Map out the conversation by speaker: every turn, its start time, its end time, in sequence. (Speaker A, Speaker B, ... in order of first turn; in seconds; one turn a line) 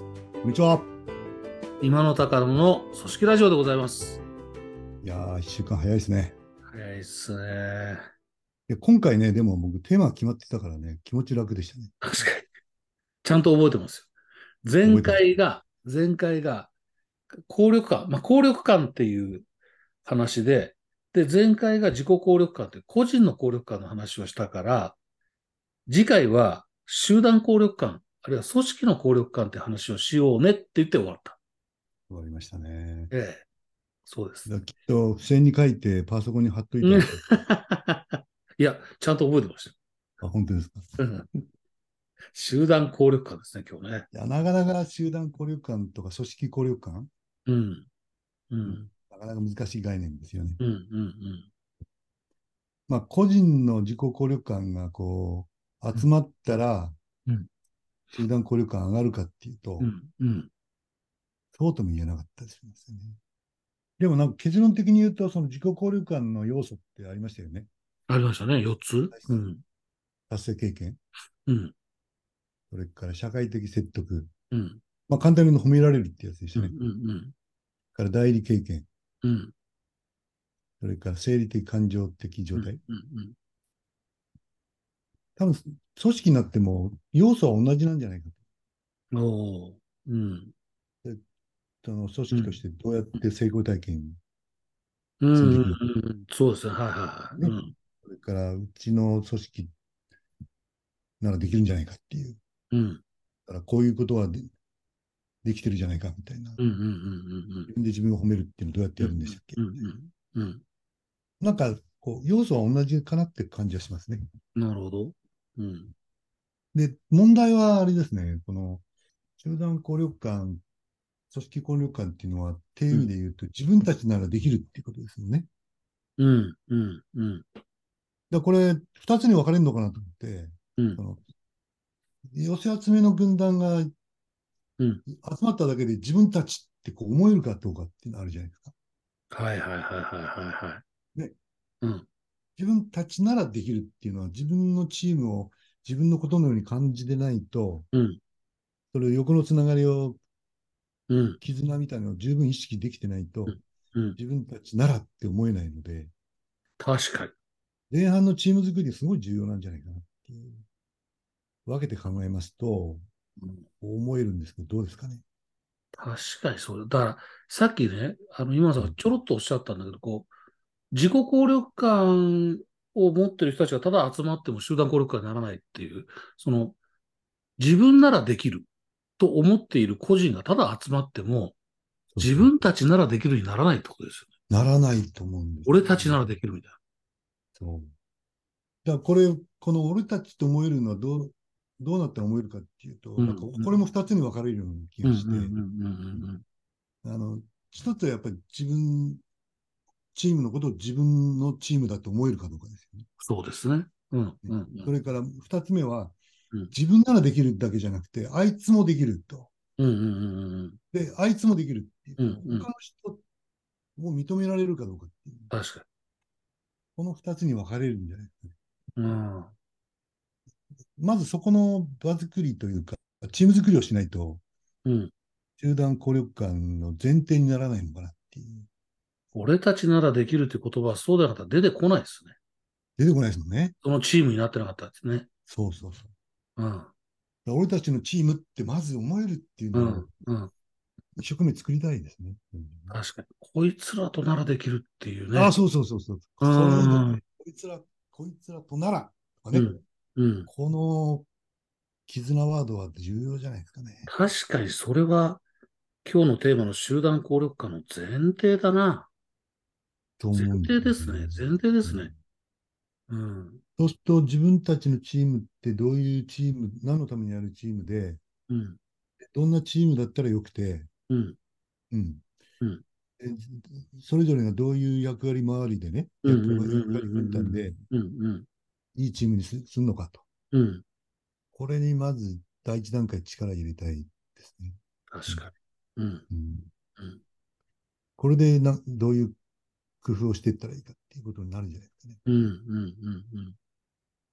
Speaker A: 0.4-0.9
Speaker B: 1.8-4.2
Speaker A: 5.0-6.4
Speaker B: 6.7-8.1
Speaker A: 8.7-12.3
Speaker B: 12.0-12.5
Speaker B: 13.2-14.1
Speaker B: 14.6-16.7
Speaker A: 14.8-15.3
Speaker B: 17.3-19.5
Speaker B: 20.0-25.0
Speaker B: 25.9-31.4
Speaker A: 32.1-33.1
Speaker B: 33.1-33.5
Speaker B: 34.1-34.5
Speaker A: 34.5-37.3
Speaker B: 36.8-39.8
Speaker A: 40.2-41.0
Speaker B: 41.0-41.3
Speaker B: 42.3-44.1
Speaker A: 44.1-47.1
Speaker B: 47.5-47.9
Speaker B: 48.5-48.9
Speaker A: 48.7-50.6
Speaker B: 50.6-51.5
Speaker A: 52.9-57.0
Speaker A: 58.1-59.9
Speaker B: 59.8-60.5
Speaker A: 61.5-63.2
Speaker A: 64.0-67.7
Speaker B: 68.1-69.6
Speaker A: 69.1-69.4
Speaker A: 70.3-71.0
Speaker B: 71.5-71.7
Speaker A: 72.7-74.3
Speaker B: 74.5-74.8
Speaker A: 75.1-76.7
Speaker B: 76.5-77.3
Speaker A: 78.0-78.9
Speaker B: 79.2-79.5
Speaker A: 80.8-82.8
Speaker B: 82.5-83.3
Speaker A: 85.4-88.4
Speaker B: 89.1-90.5
Speaker A: 91.8-94.2
Speaker B: 92.3-92.6
Speaker B: 95.2-97.7
Speaker A: 95.3-95.8
Speaker A: 97.4-99.7
Speaker A: 101.2-102.4
Speaker B: 102.7-103.0
Speaker A: 103.5-104.5
Speaker A: 105.4-106.6
Speaker B: 106.6-107.7
Speaker A: 107.7-109.7
Speaker B: 109.0-110.6
Speaker A: 111.4-114.2
Speaker B: 114.6-115.9
Speaker A: 116.7-118.8
Speaker A: 119.4-120.6
Speaker A: 121.3-125.5
Speaker B: 126.2-127.5
Speaker A: 128.3-131.2
Speaker A: 132.3-133.9
Speaker A: 135.1-138.7
Speaker B: 139.3-140.8
Speaker A: 142.6-147.9
Speaker B: 147.9-148.2
Speaker A: 148.9-150.2
Speaker B: 151.1-151.4
Speaker A: 151.4-153.6
Speaker B: 153.5-154.2
Speaker A: 154.2-156.1
Speaker B: 156.8-157.3
Speaker A: 157.9-160.6
Speaker A: 161.7-163.0
Speaker A: 163.8-165.2
Speaker B: 165.9-170.3
Speaker B: 170.9-176.8
Speaker B: 177.6-178.7
Speaker B: 179.2-181.6
Speaker A: 182.1-182.7
Speaker B: 182.2-184.3
Speaker A: 184.5-186.4
Speaker B: 185.7-186.8
Speaker A: 187.6-187.9
Speaker A: 188.8-195.6
Speaker B: 193.2-193.7
Speaker B: 195.0-196.4
Speaker A: 197.0-199.2
Speaker A: 200.2-203.1
Speaker B: 203.2-204.9
Speaker A: 204.5-206.2
Speaker A: 206.7-209.5
Speaker B: 209.8-210.8
Speaker A: 210.9-213.2
Speaker B: 212.2-212.7
Speaker A: 214.0-215.5
Speaker B: 215.5-215.8
Speaker A: 217.0-218.6
Speaker B: 219.0-219.5
Speaker A: 221.0-224.4
Speaker B: 224.8-225.1
Speaker A: 225.6-228.7
Speaker B: 229.3-232.4
Speaker A: 233.0-233.8
Speaker B: 233.8-235.3
Speaker A: 235.5-236.1
Speaker B: 236.6-236.9
Speaker A: 237.5-240.1
Speaker B: 239.7-240.5
Speaker A: 241.2-243.0
Speaker B: 242.9-245.6
Speaker A: 245.3-249.7
Speaker B: 246.4-247.2
Speaker B: 249.5-250.5
Speaker A: 250.5-251.3
Speaker A: 252.1-254.1
Speaker B: 254.1-255.4
Speaker B: 256.0-259.1
Speaker A: 260.2-262.1
Speaker B: 260.3-262.1
Speaker B: 263.1-263.6
Speaker A: 263.8-268.2
Speaker B: 268.5-268.8
Speaker A: 269.2-270.9
Speaker B: 271.1-271.4
Speaker A: 271.9-272.3
Speaker A: 273.2-277.8
Speaker B: 276.2-278.5
Speaker A: 279.0-280.2
Speaker B: 280.5-280.8
Speaker A: 281.5-285.4
Speaker B: 285.1-286.2
Speaker A: 286.3-286.7
Speaker A: 288.2-289.4
Speaker A: 290.0-292.2
Speaker B: 292.3-293.6